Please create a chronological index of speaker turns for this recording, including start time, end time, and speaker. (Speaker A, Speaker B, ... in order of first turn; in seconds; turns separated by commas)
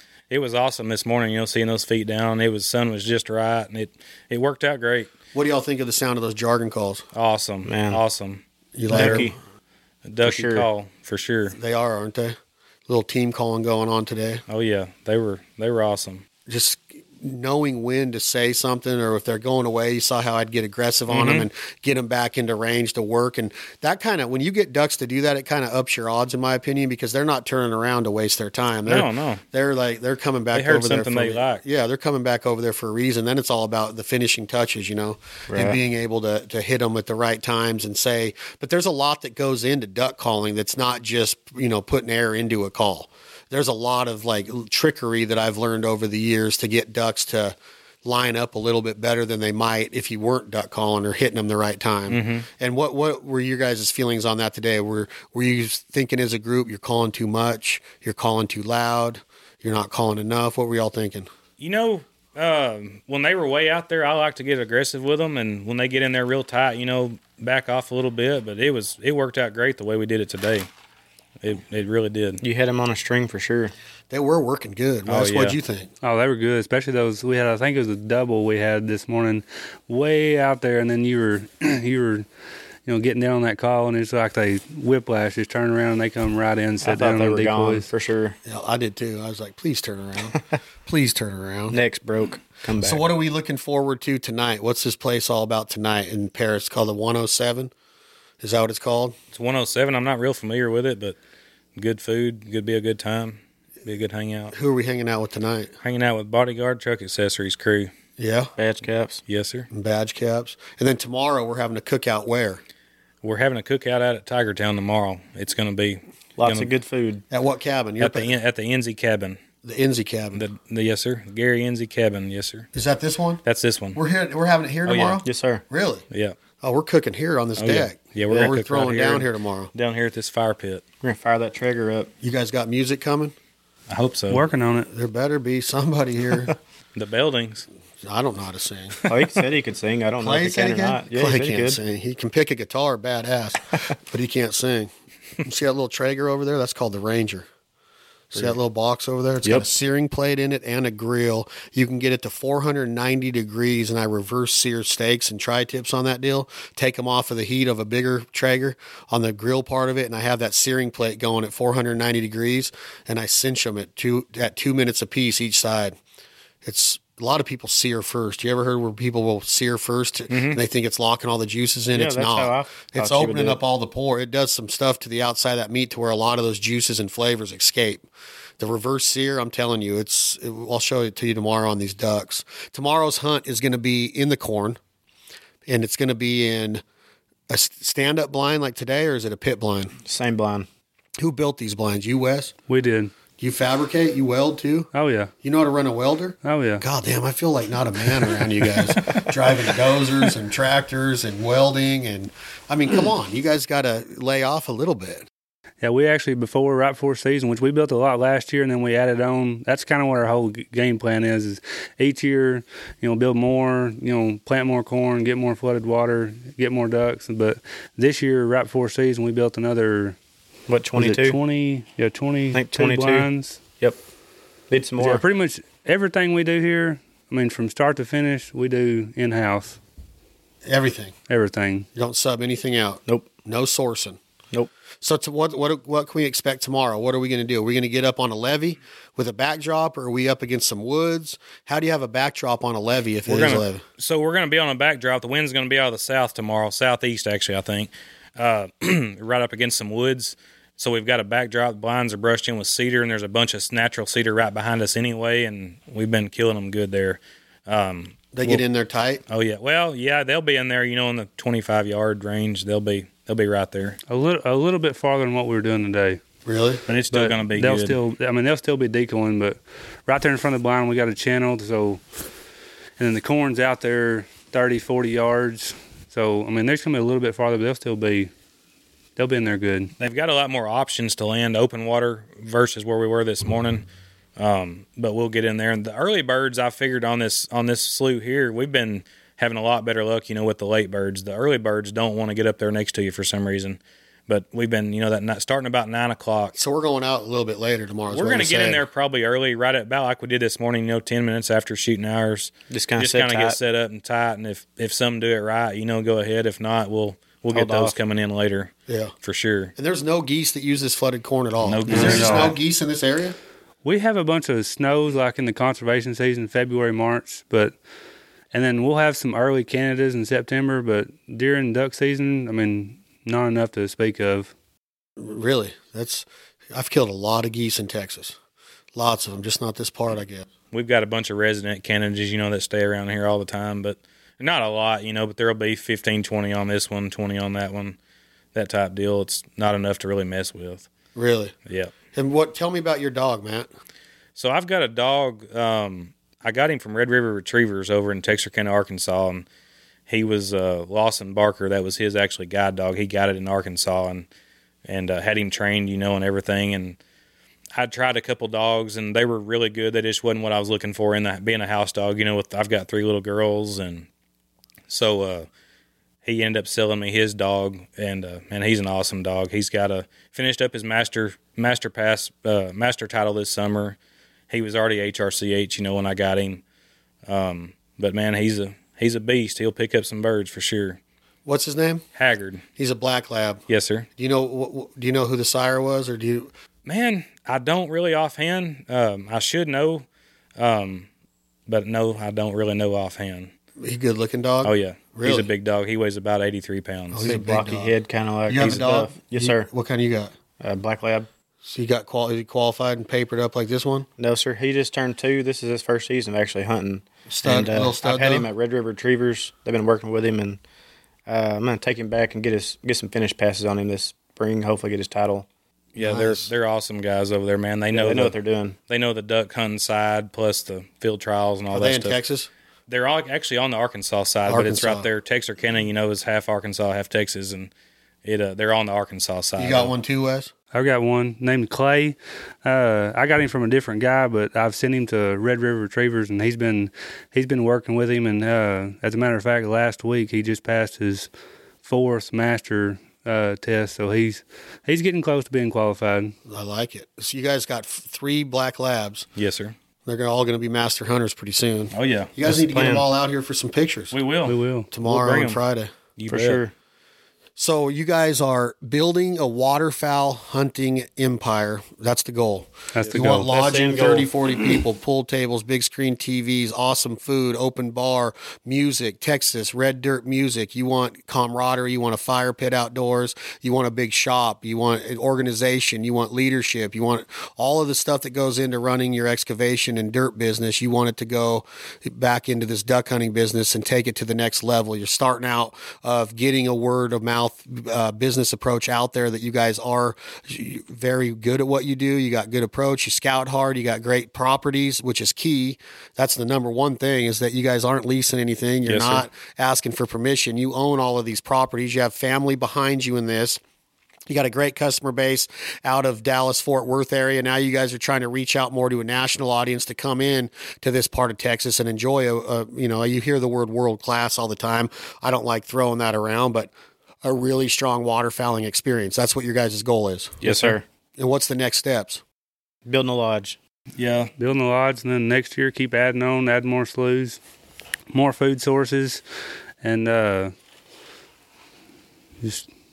Speaker A: 0.3-5.1, Speaker B: 5.3-7.0, Speaker A: 7.1-9.3, Speaker C: 7.7-8.0, Speaker B: 8.8-9.3, Speaker C: 8.9-9.3, Speaker A: 10.1-11.6, Speaker C: 10.2-10.7, Speaker B: 11.5-14.4, Speaker A: 14.5-16.2, Speaker B: 16.5-61.3, Speaker A: 21.1-21.5, Speaker A: 28.9-29.4, Speaker A: 30.5-31.6, Speaker C: 35.5-35.8, Speaker A: 52.1-52.5, Speaker A: 61.6-70.7, Speaker A: 71.4-72.4, Speaker C: 72.4-73.7, Speaker B: 74.1-75.9, Speaker A: 75.1-75.6, Speaker D: 76.0-82.3, Speaker D: 82.9-87.9, Speaker C: 86.8-88.4, Speaker B: 88.5-91.8, Speaker C: 91.7-93.0, Speaker B: 92.8-97.7, Speaker B: 98.4-99.2, Speaker A: 99.3-101.2, Speaker A: 101.8-104.5, Speaker B: 104.5-105.7, Speaker A: 105.8-107.9, Speaker B: 108.2-108.5, Speaker C: 108.6-109.2, Speaker A: 109.3-109.7, Speaker B: 109.7-112.6, Speaker A: 113.2-116.7, Speaker C: 116.4-117.2, Speaker B: 117.3-118.3, Speaker A: 118.0-119.4, Speaker B: 119.6-120.4, Speaker A: 120.3-122.7, Speaker B: 122.7-123.4, Speaker A: 123.5-124.0, Speaker B: 124.0-126.0, Speaker A: 124.9-125.2, Speaker C: 125.2-125.6, Speaker A: 126.1-126.4, Speaker B: 126.6-129.7, Speaker A: 127.6-130.8, Speaker C: 131.0-132.1, Speaker B: 132.2-133.3, Speaker A: 133.9-134.4, Speaker D: 134.3-134.9, Speaker B: 134.9-136.5, Speaker A: 137.0-137.7, Speaker B: 138.0-139.0, Speaker C: 139.1-141.8, Speaker B: 140.2-144.9, Speaker B: 145.4-147.5, Speaker B: 148.3-166.0, Speaker B: 166.6-178.1, Speaker A: 170.3-170.6, Speaker C: 171.9-173.6, Speaker B: 178.6-184.8, Speaker B: 185.7-186.8, Speaker B: 187.5-189.9, Speaker C: 190.1-190.7, Speaker B: 191.2-192.5, Speaker D: 192.7-193.1, Speaker B: 193.4-194.9, Speaker D: 194.9-195.3, Speaker B: 195.4-205.3, Speaker D: 196.4-196.8, Speaker D: 205.8-220.2, Speaker C: 220.7-221.4, Speaker D: 220.9-223.6, Speaker C: 222.5-224.0, Speaker C: 224.7-225.2, Speaker D: 225.0-229.8, Speaker B: 230.7-231.1, Speaker D: 231.3-231.9, Speaker B: 231.9-234.2, Speaker B: 235.0-243.8, Speaker A: 243.3-258.6, Speaker B: 258.3-259.2, Speaker A: 259.3-264.0, Speaker D: 264.1-266.2, Speaker B: 266.5-266.8, Speaker A: 266.9-268.0, Speaker D: 267.1-272.0, Speaker D: 273.0-278.3, Speaker D: 279.2-279.9, Speaker A: 280.0-283.9, Speaker A: 284.4-296.6, Speaker B: 296.6-298.8, Speaker A: 298.1-308.7, Speaker C: 302.7-303.6, Speaker C: 307.5-307.9, Speaker B: 308.9-309.1, Speaker A: 309.2-309.7, Speaker B: 309.8-313.4, Speaker A: 311.6-312.6, Speaker C: 311.9-312.3, Speaker D: 312.0-312.5, Speaker D: 313.8-317.8, Speaker D: 318.5-324.5, Speaker B: 325.2-328.4, Speaker B: 328.9-330.5, Speaker A: 330.7-338.0, Speaker A: 338.5-340.9, Speaker B: 341.1-341.5, Speaker A: 341.7-341.9, Speaker B: 342.1-343.7, Speaker A: 344.4-349.5, Speaker A: 350.1-354.3, Speaker A: 354.9-357.0, Speaker A: 357.8-364.1, Speaker A: 364.9-365.5, Speaker A: 366.2-374.0, Speaker A: 374.5-376.6, Speaker A: 377.3-381.0, Speaker B: 381.5-382.0, Speaker A: 382.1-382.6, Speaker B: 382.8-383.6, Speaker A: 383.7-384.1, Speaker B: 384.2-386.5, Speaker A: 386.9-390.1, Speaker A: 390.6-391.1, Speaker A: 391.7-393.5, Speaker B: 393.8-395.5, Speaker A: 394.6-397.3, Speaker B: 397.1-397.9, Speaker C: 397.2-399.7, Speaker B: 398.5-400.3, Speaker C: 400.6-401.3, Speaker B: 401.6-404.1, Speaker C: 404.2-410.6, Speaker B: 407.3-408.5, Speaker C: 411.3-415.5, Speaker A: 415.9-418.4, Speaker B: 416.0-416.5, Speaker C: 417.9-418.8, Speaker A: 418.9-422.2, Speaker B: 421.7-422.5, Speaker A: 422.9-427.7, Speaker B: 424.5-425.1, Speaker A: 428.2-429.9, Speaker B: 429.6-430.5, Speaker D: 430.7-441.3, Speaker D: 441.8-446.4, Speaker B: 446.5-449.3, Speaker A: 449.4-449.8, Speaker B: 450.1-454.1, Speaker A: 451.9-452.3, Speaker C: 452.4-453.1, Speaker A: 454.1-455.6, Speaker D: 454.5-454.9, Speaker B: 454.9-455.9, Speaker A: 456.2-456.6, Speaker C: 456.3-456.7, Speaker B: 457.6-503.6, Speaker D: 462.9-463.5, Speaker C: 463.0-464.3, Speaker A: 498.9-499.3, Speaker B: 504.3-516.7, Speaker B: 517.2-520.4, Speaker C: 520.4-520.8, Speaker A: 520.4-520.8, Speaker B: 521.2-522.2, Speaker C: 522.9-523.6, Speaker A: 524.0-524.3, Speaker D: 524.4-527.4, Speaker D: 528.1-529.2, Speaker D: 529.8-530.5, Speaker D: 532.4-532.7